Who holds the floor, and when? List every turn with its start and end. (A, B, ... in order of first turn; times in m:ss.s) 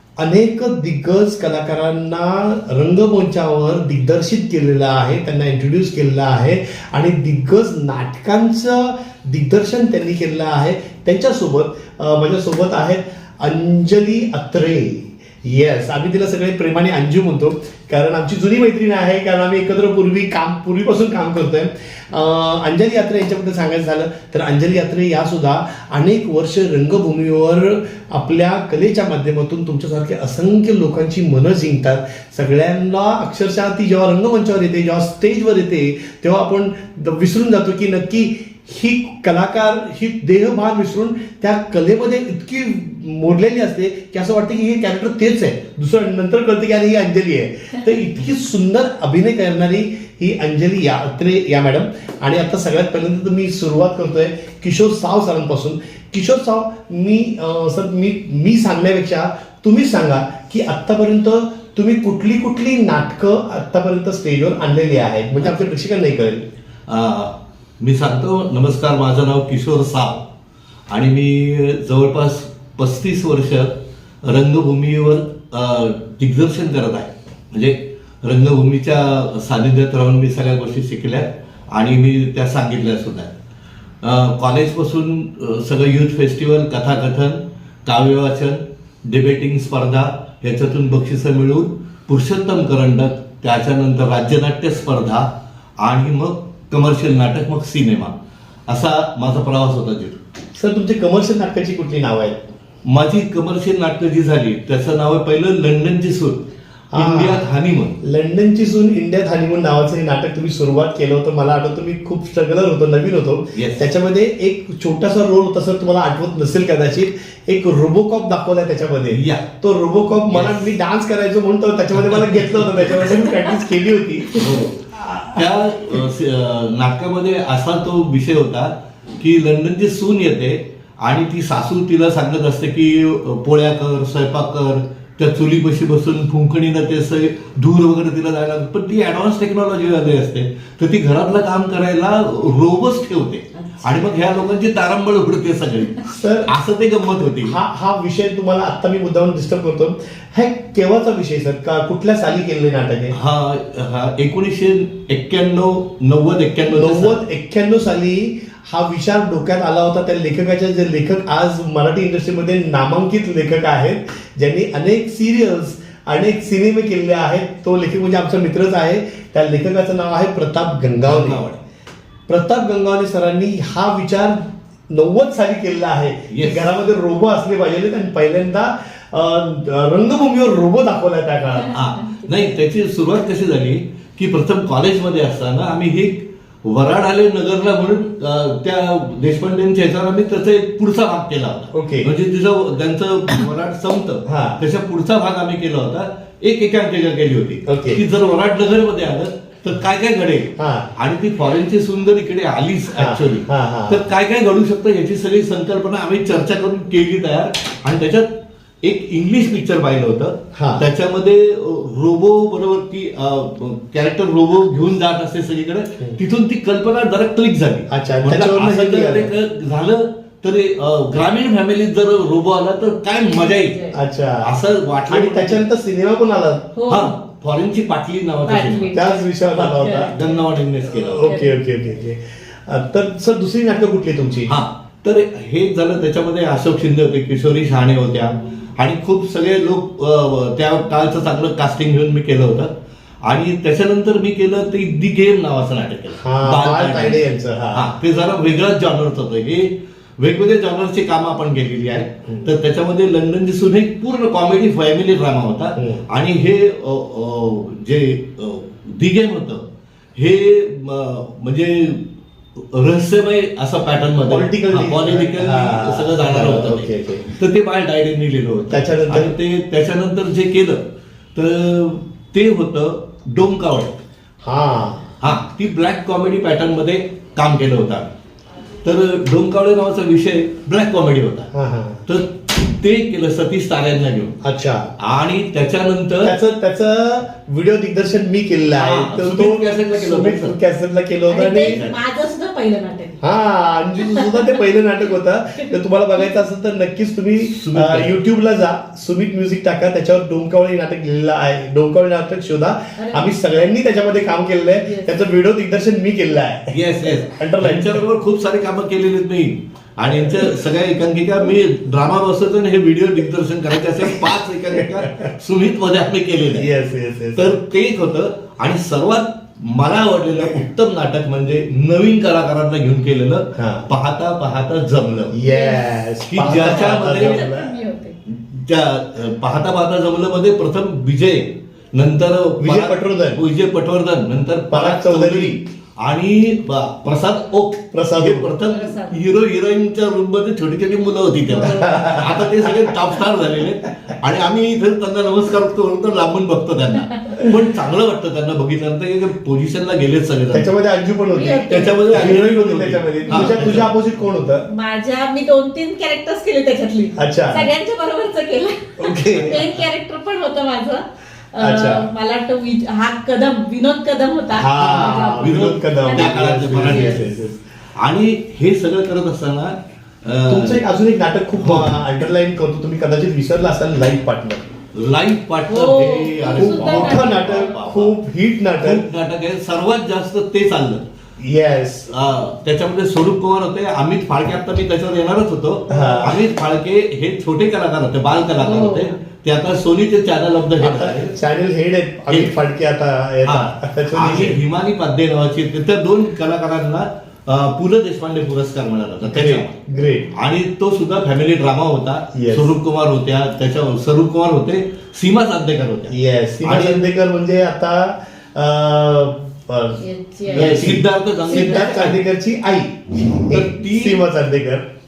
0:00.2-1:06.4 A
1:06.9-1:10.2 B
1:10.9-1:23.3 B
1:24.0-1:35.3 B
1:35.8-1:38.1 B
1:38.7-1:40.2 B
1:40.6-1:42.4 A
1:42.8-1:46.4 B
1:46.9-1:47.4 A
1:47.0-1:48.0 B
1:48.0-2:05.4 A
1:53.5-1:53.9 B
1:59.1-1:59.4 B
2:00.3-2:00.7 B
2:02.0-2:03.1 B
2:04.4-2:27.6 B
2:23.7-2:24.0 C
2:26.1-2:26.5 A
2:27.4-2:33.2 A
2:33.1-2:37.2 B
2:36.7-2:51.4 A
2:51.0-2:51.6 B
2:52.3-3:01.8 A
2:56.3-2:56.8 B
3:01.7-3:28.3 B
3:02.0-3:02.3 C
3:11.7-3:12.1 A
3:14.2-3:14.6 A
3:17.6-3:18.0 A
3:20.6-3:20.9 A
3:22.9-3:24.1 A
3:28.8-3:43.8 B
3:30.5-3:30.9 A
3:37.9-3:39.3 A
3:43.4-3:43.9 C
3:43.9-3:44.5 A
3:44.4-3:45.6 B
3:45.1-3:46.7 A
3:46.8-3:47.1 C
3:46.9-3:49.0 B
3:48.4-3:50.3 C
3:48.9-3:50.1 A
3:49.5-3:51.3 B
3:50.9-3:54.6 A
3:51.2-3:51.6 C
3:54.5-4:02.7 B
4:03.2-4:19.6 B
4:06.2-4:07.9 A
4:15.8-4:16.0 A
4:20.2-4:22.0 B
4:22.6-4:30.8 B
4:24.3-4:27.3 A
4:28.7-4:29.4 A
4:31.3-4:34.0 B
4:34.4-4:35.1 A
4:35.2-4:38.1 B
4:38.8-4:41.5 B
4:41.5-4:42.0 A
4:42.1-4:44.4 B
4:44.4-4:44.9 A
4:45.0-4:46.4 B
4:46.2-4:51.8 A
4:48.8-4:50.6 B
4:51.3-4:53.2 C
4:51.5-4:52.0 B
4:53.2-5:08.0 A
4:54.0-4:54.6 C
4:57.4-4:58.2 B
5:03.0-5:03.3 C
5:04.8-5:05.1 C
5:06.7-5:16.7 B
5:10.2-5:10.5 A
5:16.5-5:17.5 A
5:17.4-5:25.3 B
5:23.6-5:23.9 A
5:25.3-5:27.7 A
5:25.5-5:28.2 C
5:26.3-5:27.4 B
5:28.3-5:50.7 B
5:32.6-5:33.4 A
5:34.7-5:35.6 A
5:37.9-5:38.5 A
5:38.6-5:39.2 C
5:41.5-5:42.2 C
5:41.6-5:42.4 A
5:50.5-5:54.6 A
5:51.3-5:52.4 C
5:51.7-5:53.9 B
5:53.3-5:53.5 C
5:54.7-6:07.2 C
5:57.2-5:57.7 A
5:59.0-5:59.6 A
5:59.1-5:59.7 B
6:01.6-6:02.1 A
6:04.6-6:07.6 A
6:04.8-6:07.3 B
6:08.0-6:10.8 B
6:10.5-6:14.7 A
6:11.6-6:11.9 B
6:14.9-6:18.1 B
6:15.7-6:17.8 C
6:16.6-6:19.0 A
6:18.8-6:21.0 B
6:21.4-6:22.1 A
6:22.1-6:31.3 B
6:25.9-6:26.4 A
6:25.9-6:26.2 C
6:28.6-6:29.1 C
6:30.8-6:34.6 A
6:32.3-6:32.5 B
6:33.4-6:39.8 B
6:39.2-6:40.3 A
6:40.3-6:47.0 B
6:42.3-6:42.7 A
6:46.1-6:54.8 A
6:50.0-6:50.9 C
6:50.5-6:52.1 B
6:51.5-6:52.2 C
6:53.5-6:54.2 B